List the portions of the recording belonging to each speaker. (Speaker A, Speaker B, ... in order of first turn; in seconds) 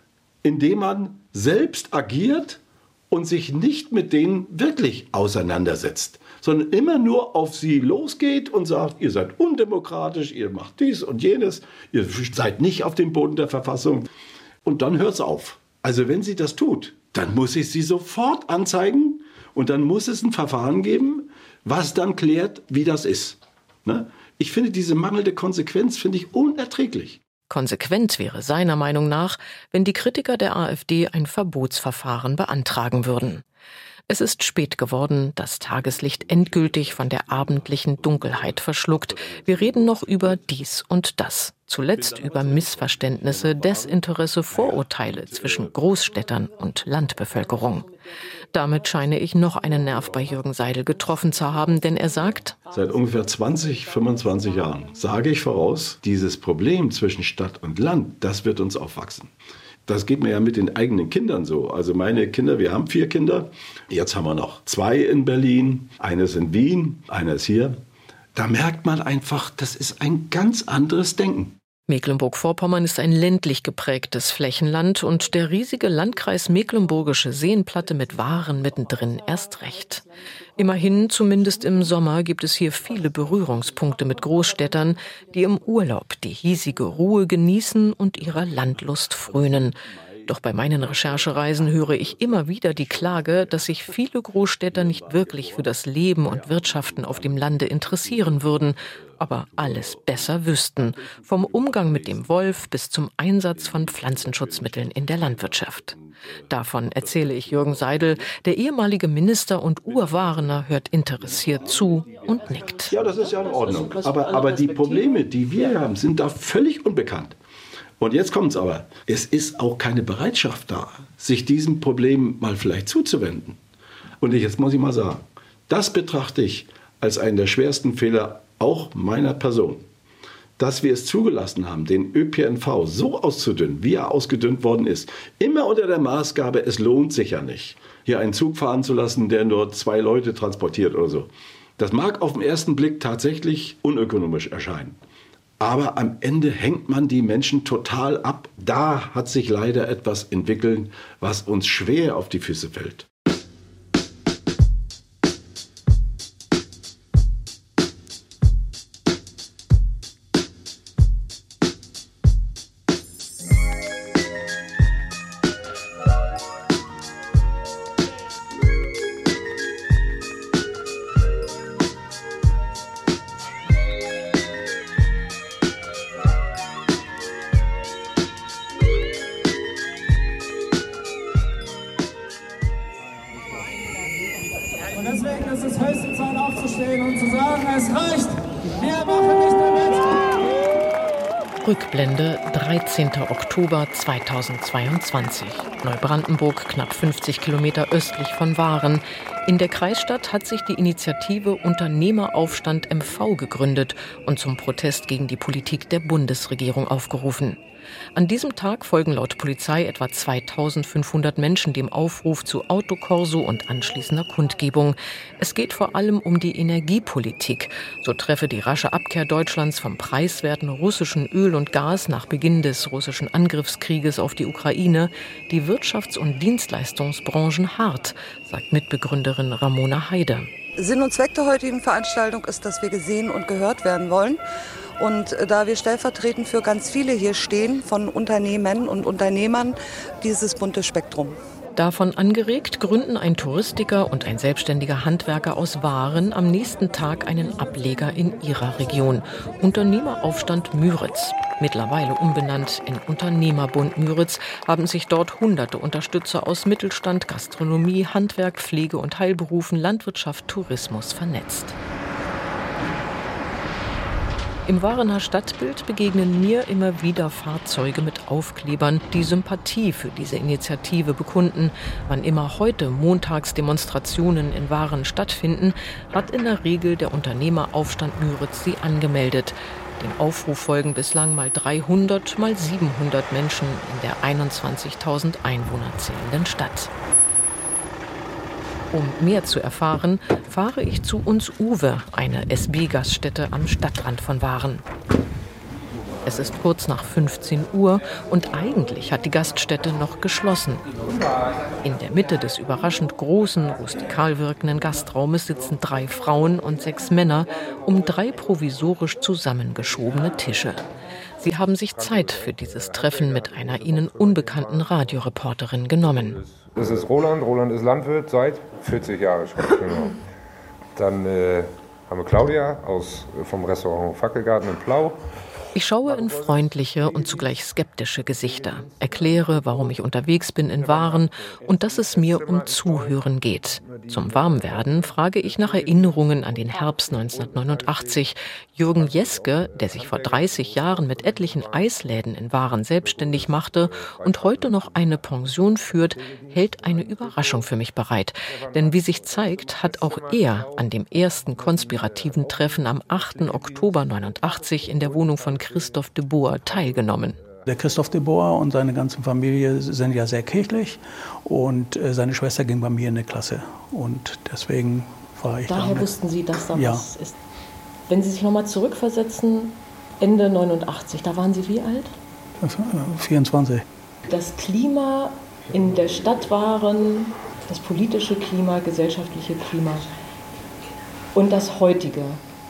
Speaker A: 0.4-14.1, 14.6-27.2, 36.2-40.3, 42.0-44.0, 44.5-45.7, 52.7-59.3, 59.9-67.8, 68.3-71.6, 90.5-93.5, 94.7-95.5, 96.4-98.6, 101.0-102.6, 103.6-108.2, 109.9-117.3, 118.0-123.6, 124.2-129.8, 130.6-145.0, 145.6-153.1
Speaker B: 27.5-33.4, 34.1-47.9, 48.5-52.6, 71.9-80.0, 80.6-106.0, 106.5-112.9, 191.6-207.6, 208.2-230.5, 241.8-261.8, 264.6-286.9, 288.9-294.8, 296.2-300.9, 301.8-310.8, 311.4-316.4, 325.7-357.4
Speaker C: 112.7-115.8, 365.7-367.3, 368.1-372.1, 374.3-380.1, 381.3-382.4
Speaker D: 230.8-234.4, 235.0-241.4
Speaker E: 311.9-315.3, 316.0-320.1, 320.9-325.2, 326.0-327.5, 328.9-329.8, 330.8-333.2, 333.8-338.3, 338.9-342.0, 343.0-347.7, 348.4-356.1, 356.6-357.6
Speaker F: 357.7-367.1, 372.6-373.8